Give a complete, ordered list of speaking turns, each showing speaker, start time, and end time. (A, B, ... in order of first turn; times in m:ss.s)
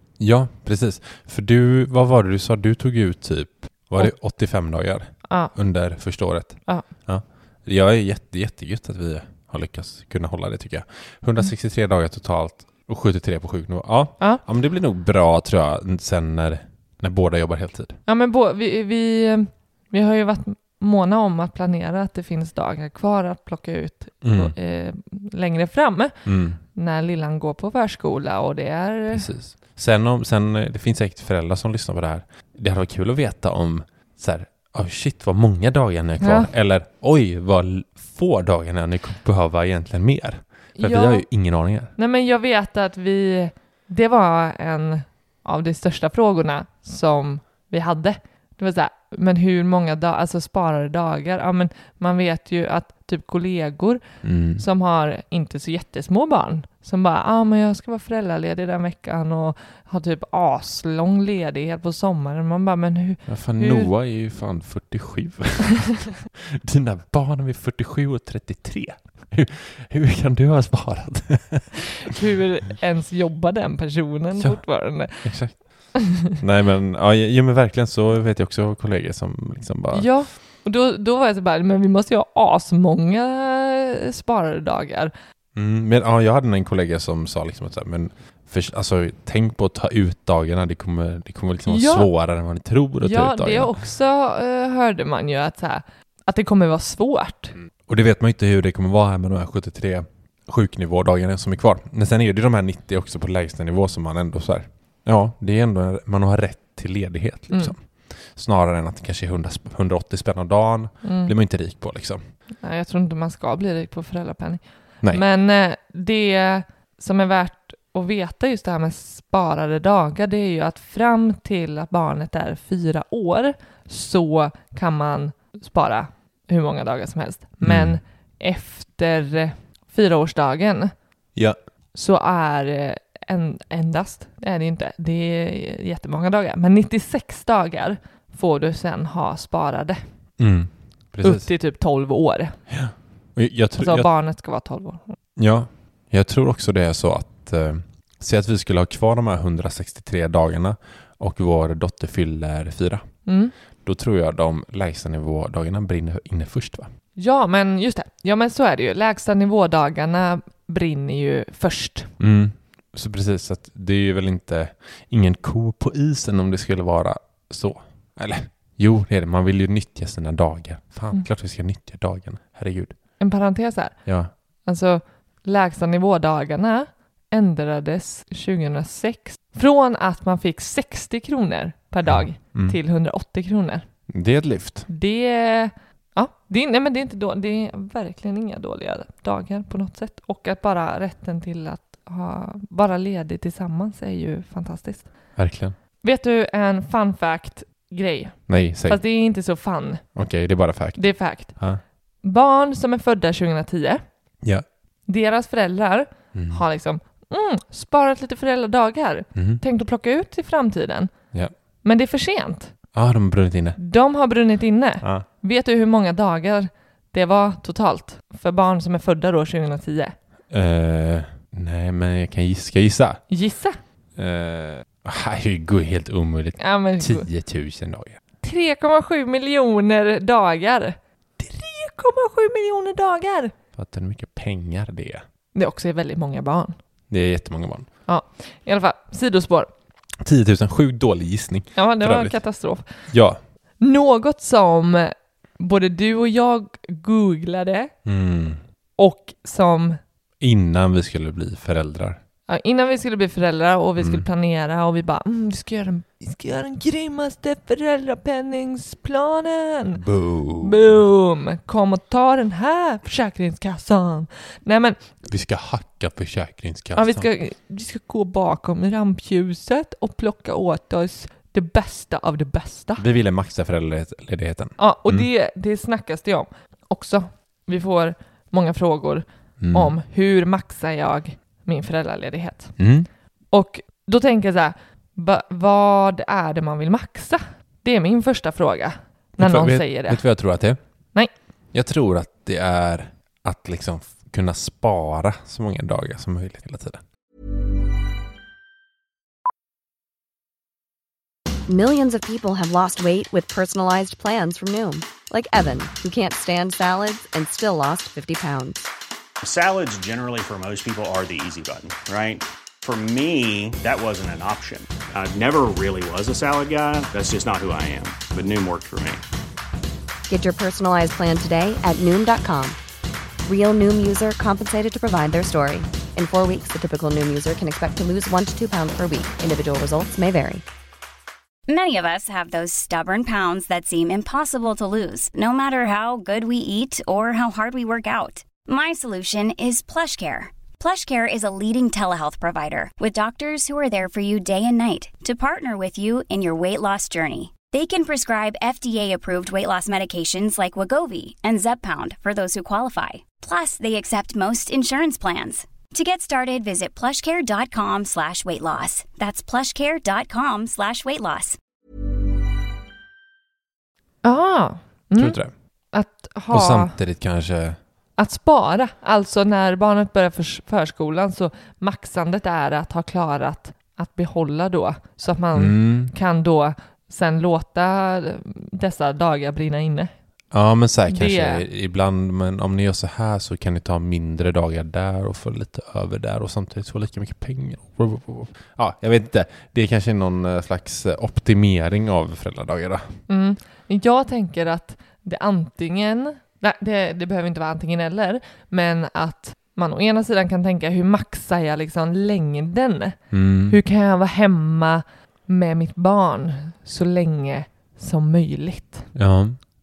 0:00.2-0:18.0 A
0:05.3-0:05.5 B
0:18.1-0:29.3 B
0:24.2-0:24.5 A
0:26.2-0:26.6 A
0:29.1-0:41.9 A
0:36.2-0:36.5 B
0:40.8-0:41.2 B
0:42.0-0:54.0 B
0:54.2-0:54.6 A
0:54.6-1:03.9 B
1:03.3-1:11.8 A
1:12.0-1:15.6 B
1:14.4-1:20.1 A
1:19.9-1:25.1 B
1:25.5-1:33.8 A
1:31.6-1:32.1 B
1:33.0-1:37.6 B
1:37.8-1:52.2 A
1:51.0-1:51.3 B
1:52.6-2:10.9 B
2:07.6-2:08.0 A
2:11.9-2:20.0 B
2:20.4-2:21.5 A
2:21.2-2:22.6 B
2:22.7-2:24.1 A
2:23.8-2:25.2 B
2:25.4-2:33.0 A
2:33.2-2:33.5 B
2:33.8-2:36.9 A
2:37.2-2:42.1 B
2:42.2-2:53.0 A
2:53.2-2:54.0 B
2:54.0-2:54.3 A
2:54.6-3:03.8 B
3:02.0-3:02.8 A
3:04.1-3:04.9 A
3:04.9-3:15.1 B
3:15.4-3:15.7 A
3:16.0-3:20.0 B
3:18.5-3:19.0 A
3:20.1-3:21.8 A
3:21.0-3:21.6 B
3:22.2-3:24.0 B
3:25.1-3:31.1 B
3:26.3-3:26.6 A
3:29.3-3:29.6 A
3:31.8-3:32.7 B
3:32.9-3:33.8 A
3:33.8-3:40.1 B
3:35.0-3:35.3 A
3:40.5-3:43.2 A
3:43.3-3:43.8 B
3:44.2-3:48.2 A
3:46.6-3:47.3 B
3:48.4-3:53.5 B
3:53.8-3:55.2 A
3:55.5-3:56.7 B
3:57.1-3:57.9 A
3:58.1-3:59.7 B
4:00.2-4:02.4 A
4:01.7-4:02.8 B
4:03.1-4:03.4 A
4:03.8-4:07.9 B
4:08.0-4:08.6 A
4:09.0-4:10.0 B
4:10.4-4:12.2 A
4:12.5-4:20.0 B
4:14.0-4:14.2 A
4:19.9-4:21.0 A
4:20.6-4:25.0 B
4:25.2-4:27.3 A
4:27.0-4:33.0 B
4:33.0-4:35.3 A
4:34.8-4:42.8 B
4:39.6-4:39.9 A
4:42.8-4:43.1 A
4:43.5-4:50.2 B
4:49.4-4:50.8 A
4:51.7-4:57.0 A
5:01.7-5:08.9 C
5:09.4-5:19.2 D
5:20.3-5:22.8 C
5:23.4-5:30.6 C
5:31.7-6:01.6 E
6:04.2-6:05.4 B
6:05.2-6:05.5 A
6:05.9-6:06.9 B
6:06.5-6:07.8 A
6:08.2-6:20.1 B
6:15.5-6:16.1 A
6:20.5-6:33.2 A
6:21.1-6:21.6 B
6:33.3-6:43.2 B
6:43.3-6:43.8 A
6:43.7-6:49.1 B
6:49.1-6:49.6 A